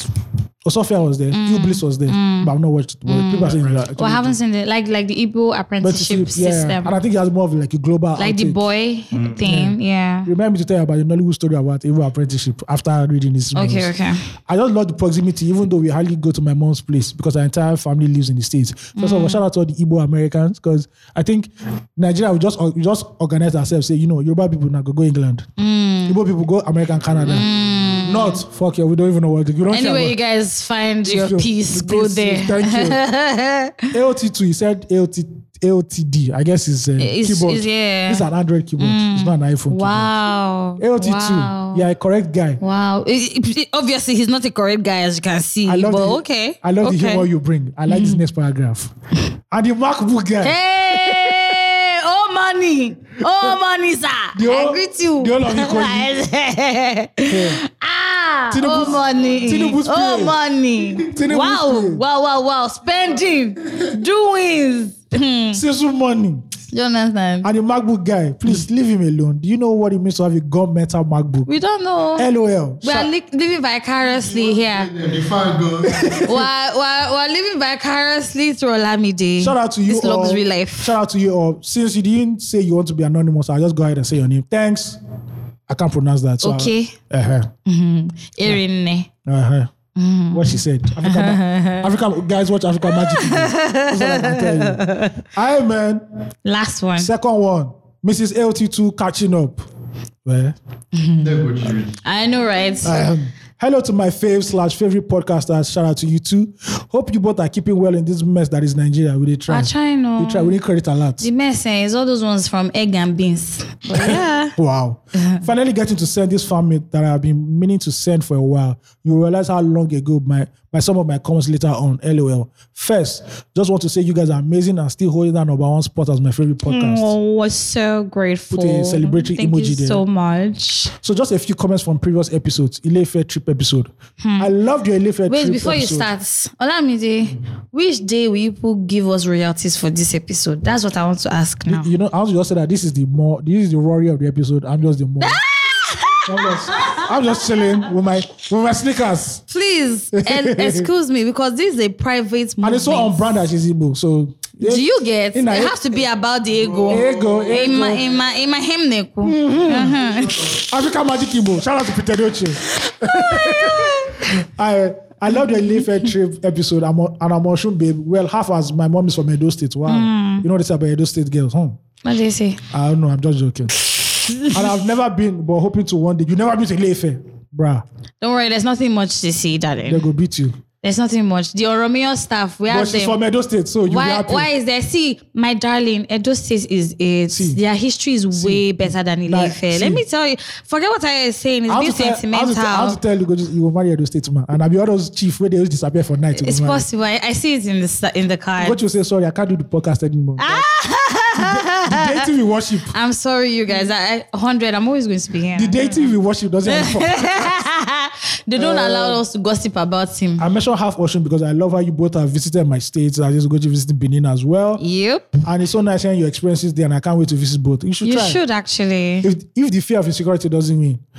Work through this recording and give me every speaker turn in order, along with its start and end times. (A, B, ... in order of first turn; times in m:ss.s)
0:00.6-0:04.4 A
0:01.3-0:02.5 B
0:03.1-0:07.0 B
0:05.8-0:08.6 A
0:08.2-0:10.3 B
0:09.4-0:13.9 A
0:13.6-0:14.2 B
0:14.5-0:25.5 A
0:19.0-0:19.4 B
0:25.6-0:26.2 B
0:26.1-0:27.5 A
0:27.3-0:28.4 B
0:28.0-0:30.2 A
0:29.7-0:33.9 B
0:31.0-0:33.0 A
0:33.9-0:40.1 A
0:37.0-0:38.3 B
0:38.8-0:41.8 B
0:40.8-0:42.6 A
0:42.6-0:47.3 B
0:45.6-0:48.9 A
0:47.9-0:48.2 B
0:49.5-0:51.6 A
0:50.4-1:05.6 B
0:54.3-0:56.1 A
0:57.3-0:57.6 A
0:58.5-1:00.4 A
1:01.0-1:02.0 A
1:05.5-1:06.4 A
1:06.7-1:07.5 B
1:07.4-1:11.5 A
1:11.5-1:12.3 B
1:12.2-1:13.1 A
1:12.8-1:15.1 B
1:14.2-1:16.3 C
1:15.8-1:16.5 A
1:16.2-1:20.9 B
1:19.4-1:25.0 A
1:25.7-1:27.5 A
1:26.4-1:27.0 B
1:27.7-1:29.1 B
1:29.3-1:29.7 A
1:30.0-1:31.9 B
1:30.3-1:36.0 A
1:32.9-1:35.2 B
1:36.4-1:37.1 B
1:37.0-1:39.6 A
1:40.2-1:40.6 A
1:41.0-1:41.5 B
1:41.2-1:42.0 C
1:42.0-1:43.0 B
1:42.8-1:51.3 A
1:49.5-1:50.6 B
1:51.2-1:54.6 B
1:53.9-2:07.2 A
2:06.6-2:10.9 B
2:08.5-2:10.0 A
2:11.0-2:16.1 A
2:14.2-2:14.5 B
2:15.3-2:21.9 B
2:21.7-2:25.4 A
2:25.2-2:27.1 B
2:26.3-2:29.4 A
2:29.5-2:33.4 B
2:30.1-2:30.9 A
2:32.6-2:36.1 A
2:34.6-2:40.7 B
2:36.9-2:38.1 A
2:37.0-2:37.4 C
2:39.2-2:51.8 A
2:42.8-2:44.3 B
2:49.9-2:50.5 B
2:52.0-2:52.6 B
2:52.7-2:53.7 A
2:54.2-2:54.6 B
2:54.5-2:57.8 A
2:58.2-3:00.1 B
2:59.8-3:00.6 A
3:00.8-3:03.2 B
3:02.7-3:04.5 A
3:03.9-3:13.0 B
3:07.3-3:07.6 A
3:08.3-3:10.0 A
3:11.7-3:16.8 A
3:16.4-3:18.8 B
3:18.6-3:20.7 A
3:20.4-3:22.3 B
3:21.4-3:23.0 A
3:22.9-3:26.1 B
3:25.6-3:27.6 A
3:26.7-3:30.5 B
3:28.6-3:29.2 A
3:30.4-3:34.8 A
3:34.8-3:35.3 B
3:35.4-3:38.4 A
3:38.0-3:39.3 B
3:39.2-3:41.0 A